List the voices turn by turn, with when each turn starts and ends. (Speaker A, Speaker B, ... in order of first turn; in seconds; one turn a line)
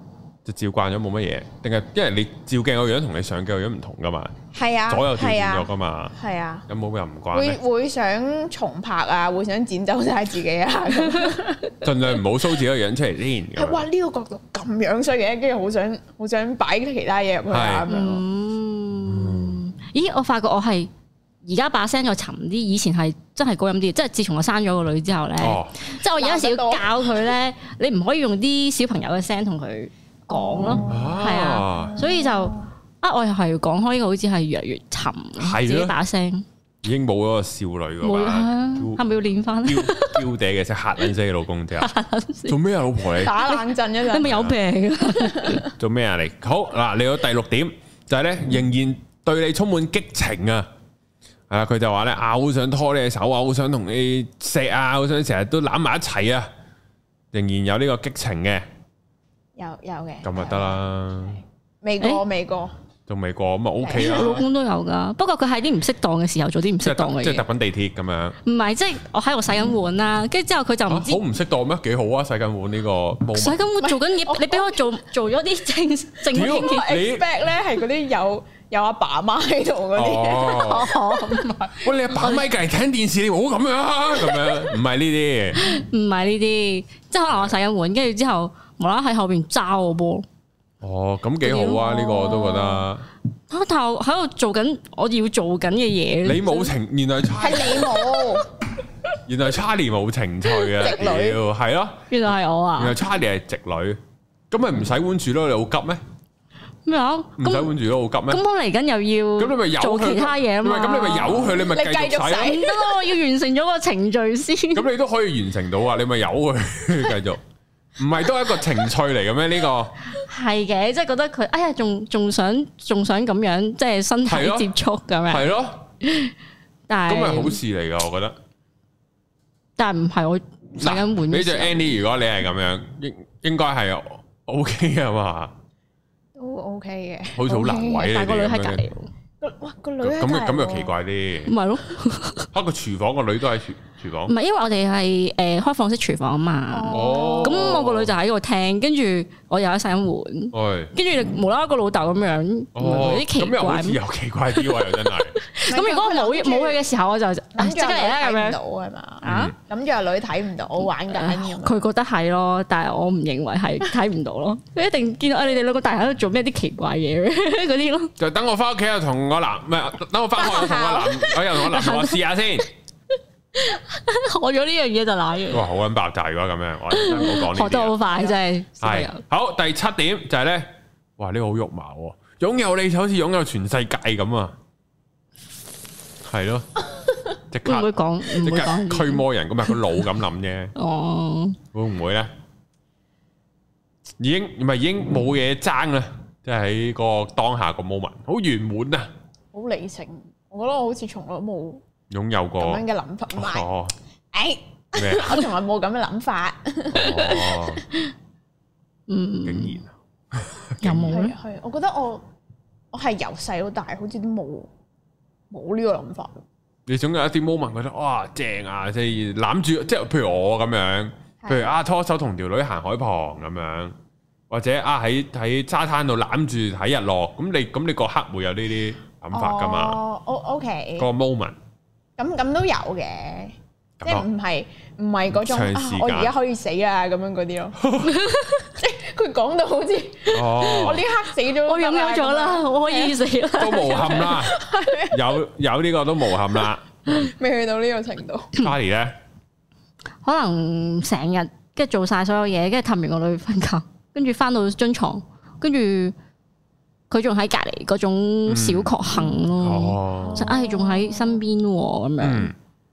Speaker A: 0.4-4.3
Speaker B: 4.5-6.7
Speaker A: 4.9-6.1
Speaker A: 6.7-7.6
Speaker B: 7.3-11.7
Speaker A: 11.8-13.8
Speaker B: 13.6-18.2
Speaker A: 17.5-17.9
Speaker C: 17.9-20.9
Speaker A: 19.1-19.6
Speaker C: 21.4-36.4
Speaker A: 25.4-25.8
Speaker B: 26.0-27.3
Speaker B: 30.3-31.2
Speaker A: 30.8-32.0
Speaker B: 31.8-32.7
Speaker A: 35.4-35.9
Speaker A: 36.8-39.0
Speaker C: 38.0-40.3
Speaker A: 39.6-41.9
Speaker C: 41.8-42.6
Speaker A: 42.5-43.4
Speaker B: 43.1-44.4
Speaker C: 43.3-45.7
Speaker A: 44.2-44.5
Speaker B: 45.1-45.6
Speaker A: 45.7-50.7
Speaker A: 51.5-56.5
Speaker A: 57.3-58.6
Speaker B: 59.5-62.7
Speaker A: 60.2-61.4
Speaker A: 63.1-64.5
Speaker B: 63.8-64.4
Speaker C: 63.9-67.4
Speaker A: 66.8-68.4
Speaker C: 68.4-71.2
Speaker A: 70.9-73.6
Speaker C: 73.3-77.0
Speaker B: 73.8-74.9
Speaker A: 76.3-77.2
Speaker B: 76.3-81.8
Speaker A: 79.9-80.9
Speaker C: 80.5-82.5
Speaker A: 81.8-85.6
Speaker C: 85.5-90.2
Speaker A: 90.8-93.1
Speaker C: 91.4-92.9
Speaker C: 93.5-96.7
Speaker A: 96.2-98.0
Speaker B: 97.4-98.5
Speaker A: 99.2-102.0
Speaker B: 100.7-101.4
Speaker C: 102.1-103.0
Speaker A: 102.8-104.0
Speaker A: 104.5-106.0
Speaker C: 106.8-107.7
Speaker A: 107.4-108.4
Speaker C: 108.3-111.6
Speaker A: 109.4-112.6
Speaker B: 111.5-113.1
Speaker C: 112.3-114.9
Speaker A: 114.7-117.4
Speaker A: 118.0-120.0
Speaker C: 120.1-125.5
Speaker A: 124.2-124.7
Speaker A: 125.3-125.9
Speaker C: 126.0-126.3
Speaker C: 126.9-127.6
Speaker A: 127.1-128.3
Speaker C: 129.8-132.0
Speaker A: 130.8-135.5
Speaker B: 136.3-138.1
Speaker A: 137.3-138.8
Speaker C: 137.6-139.1
Speaker B: 139.4-140.9
Speaker A: 140.0-141.5
Speaker C: 141.4-142.5
Speaker A: 142.5-144.3
Speaker C: 144.3-154.0
Speaker B: 146.7-147.8
Speaker A: 146.9-148.1
Speaker A: 150.5-150.9
Speaker A: 152.7-155.3
Speaker C: 154.6-158.6
Speaker B: 155.7-156.8
Speaker B: 157.5-161.8
Speaker A: 159.2-159.5
Speaker C: 159.2-159.5
Speaker C: 161.1-168.1
Speaker A: 168.2-172.7
Speaker B: 170.4-171.2
Speaker C: 170.6-172.2
Speaker C: 173.5-175.7
Speaker A: 175.5-177.9
Speaker C: 176.9-179.2
Speaker A: 178.8-184.5
Speaker A: 186.2-186.7
Speaker A: 187.5-190.7
Speaker C: 187.7-189.8
Speaker C: 190.8-191.6
Speaker A: 191.7-192.3
Speaker A: 194.2-199.1
Speaker B: 199.5-201.8
Speaker A: 202.1-203.9
Speaker B: 202.6-203.7
Speaker B: 204.3-207.8
Speaker A: 204.9-205.5
Speaker A: 206.9-207.8
Speaker C: 209.1-209.8
Speaker A: 209.4-211.1
Speaker C: 210.8-211.3
Speaker B: 210.9-212.2
Speaker B: 212.9-214.7
Speaker B: 215.5-216.4
Speaker A: 216.9-223.9
Speaker B: 221.4-221.7
Speaker A: 224.5-230.0
Speaker B: 229.3-231.1
Speaker A: 231.0-231.6
Speaker B: 232.2-237.8
Speaker A: 234.0-234.3
Speaker A: 235.3-236.3
Speaker A: 237.8-238.2
Speaker C: 238.0-238.7
Speaker B: 238.8-243.2
Speaker A: 240.3-241.0
Speaker C: 241.6-244.4
Speaker A: 243.6-244.6
Speaker B: 243.9-245.4
Speaker A: 245.1-247.3
Speaker B: 247.1-248.5
Speaker A: 248.6-249.2
Speaker C: 250.2-256.1
Speaker C: 257.1-262.5
Speaker A: 258.5-258.9
Speaker A: 259.6-260.5
Speaker B: 260.2-261.4
Speaker A: 262.2-262.5